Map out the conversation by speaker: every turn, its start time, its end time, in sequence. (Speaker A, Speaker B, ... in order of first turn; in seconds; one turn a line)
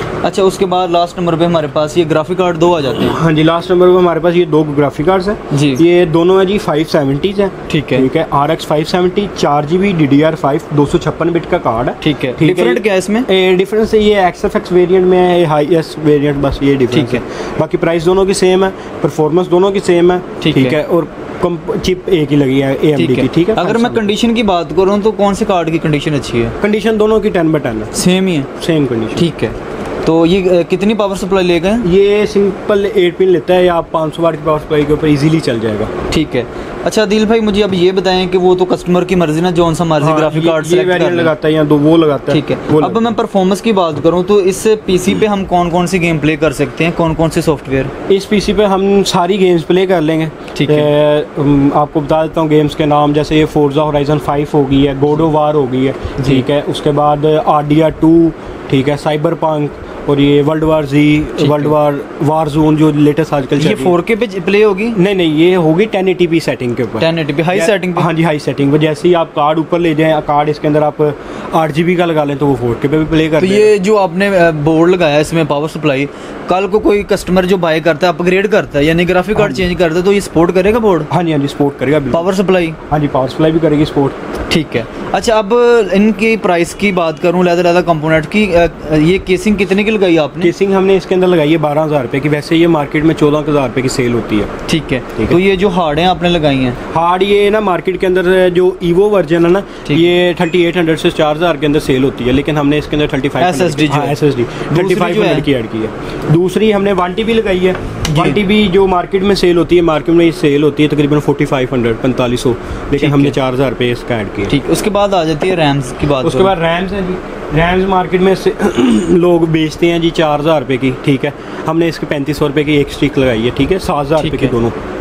Speaker A: 0.2-3.2
Speaker B: 3.0-24.1
Speaker A: 5.5-5.8
Speaker A: 7.7-8.1
Speaker A: 12.0-13.3
Speaker A: 16.9-17.2
Speaker A: 20.4-20.8
Speaker A: 22.9-26.6
Speaker B: 26.6-27.9
Speaker A: 27.9-28.5
Speaker B: 28.6-29.3
Speaker A: 29.2-31.9
Speaker B: 31.8-35.9
Speaker A: 36.1-41.3
Speaker B: 40.0-43.2
Speaker A: 42.3-47.9
Speaker B: 48.1-64.0
Speaker A: 50.5-50.9
Speaker A: 56.2-56.5
Speaker A: 61.4-61.7
Speaker A: 63.6-65.0
Speaker B: 65.0-73.8
Speaker A: 67.0-68.1
Speaker A: 73.4-81.1
Speaker B: 79.4-79.7
Speaker B: 81.1-82.3
Speaker A: 82.1-82.8
Speaker B: 82.9-84.2
Speaker A: 84.5-90.5
Speaker B: 90.4-94.5
Speaker A: 94.7-96.8
Speaker B: 96.9-114.5
Speaker A: 99.8-100.1
Speaker A: 103.4-104.2
Speaker A: 104.7-105.5
Speaker A: 108.1-108.4
Speaker A: 113.0-113.4
Speaker A: 114.5-116.5
Speaker B: 116.2-124.7
Speaker A: 124.2-124.5